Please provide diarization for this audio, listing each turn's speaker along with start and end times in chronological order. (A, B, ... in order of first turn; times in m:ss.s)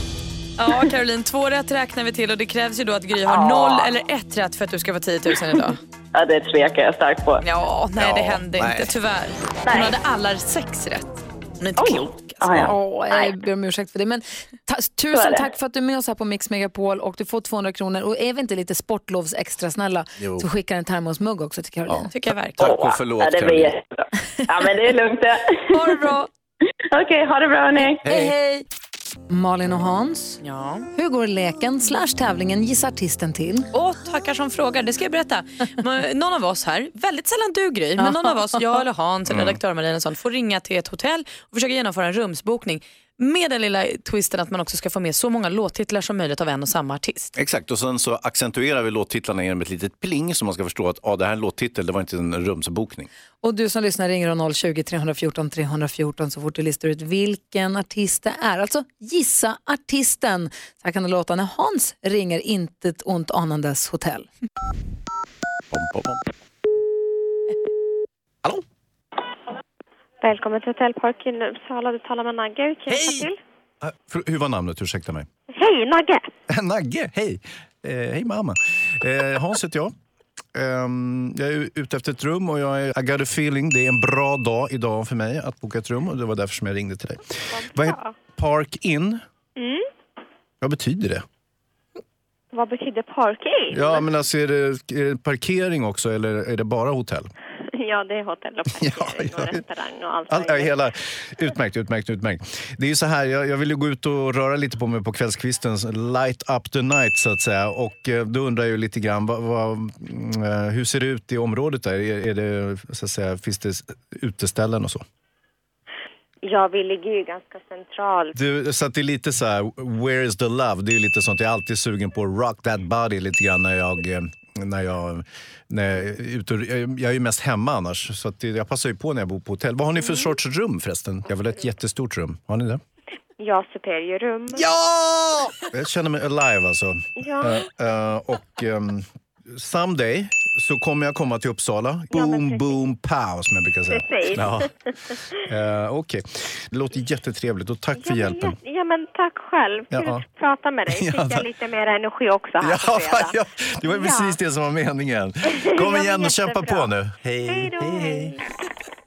0:00.6-0:05.8 A
0:03.2-0:03.9 B
0:06.1-0:07.4 B
0:07.4-0:12.6 A
0:08.0-0:08.9 C
0:09.6-0:09.9 B
0:11.8-0:13.3 B
0:12.6-0:22.1 D
0:15.1-0:15.5 B
0:20.2-0:20.4 C
0:21.9-0:23.8 C
0:22.1-0:22.7 A
0:22.6-0:25.9 B
0:25.7-0:26.3 D
0:26.9-0:28.0 B
0:28.0-0:28.3 C
0:28.0-0:28.6 D
0:29.3-0:30.4 D
0:30.4-0:30.9 A
0:30.9-0:33.7 D
0:33.7-0:47.4 A
0:39.3-0:39.6 C
0:47.4-0:53.1 C
0:53.4-1:04.3 D
1:05.7-1:06.2 C
1:10.2-1:13.4 E
1:12.9-1:13.3 C
1:13.8-1:15.3 C
1:15.5-1:16.3 E
1:16.5-1:19.9 C
1:20.5-1:29.2 C
1:27.5-1:28.2 E
1:29.6-1:29.8 E
1:30.6-1:31.2 C
1:32.5-1:34.1 E
1:33.7-1:37.3 C
1:37.7-1:40.8 E
1:38.7-1:39.6 C
1:40.3-1:55.0 C
1:56.4-1:58.4 E
1:58.3-2:12.8 C
2:10.0-2:10.3 E
2:13.4-2:14.7 E
2:14.5-2:24.7 C
2:17.2-2:17.7 E
2:22.1-2:22.8 E
2:23.9-2:24.7 E
2:25.4-2:28.6 C
2:28.0-2:34.4 E
2:29.9-2:30.2 C
2:30.9-2:31.4 C
2:32.6-2:38.3 C
2:35.5-2:36.9 E
2:37.5-2:38.3 E